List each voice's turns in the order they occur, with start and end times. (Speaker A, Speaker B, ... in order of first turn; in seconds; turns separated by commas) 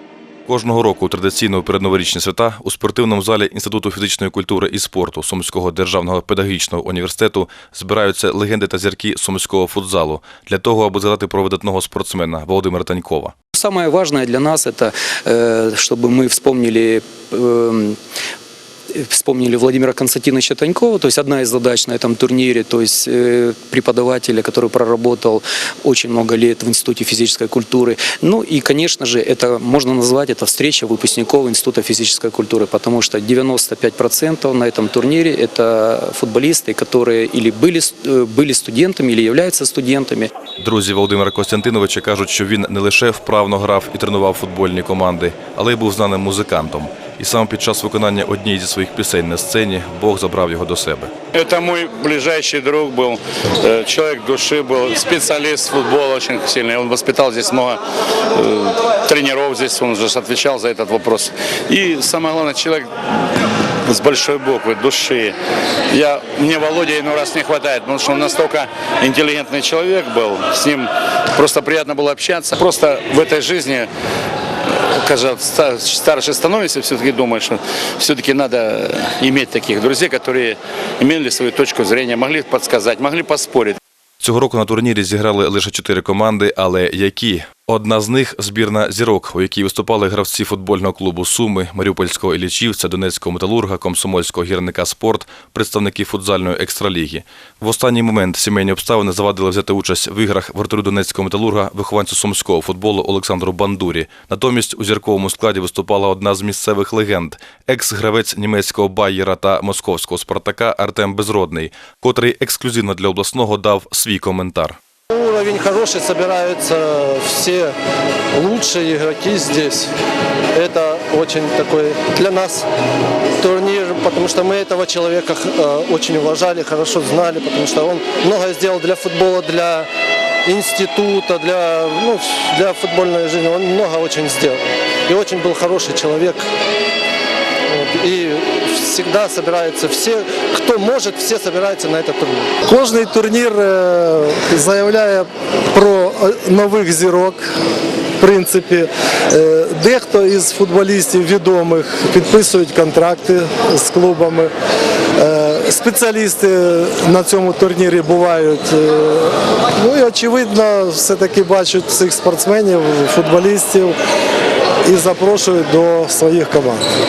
Speaker A: 0.5-13.3, Speaker B: 13.6-18.0, Speaker B: 19.0-40.3, Speaker A: 40.6-51.1, Speaker C: 51.3-57.8, Speaker C: 58.3-62.9, Speaker C: 63.9-65.4, Speaker C: 65.9-73.9, Speaker C: 74.7-83.8, Speaker A: 84.2-114.8, Speaker D: 115.1-117.8, Speaker D: 118.3-119.9, Speaker D: 120.5-122.7, Speaker D: 123.4-129.9, Speaker D: 130.4-136.4, Speaker D: 137.7-142.6, Speaker E: 142.7-147.4, Speaker E: 148.2-154.5, Speaker E: 155.2-164.0, Speaker E: 164.8-166.9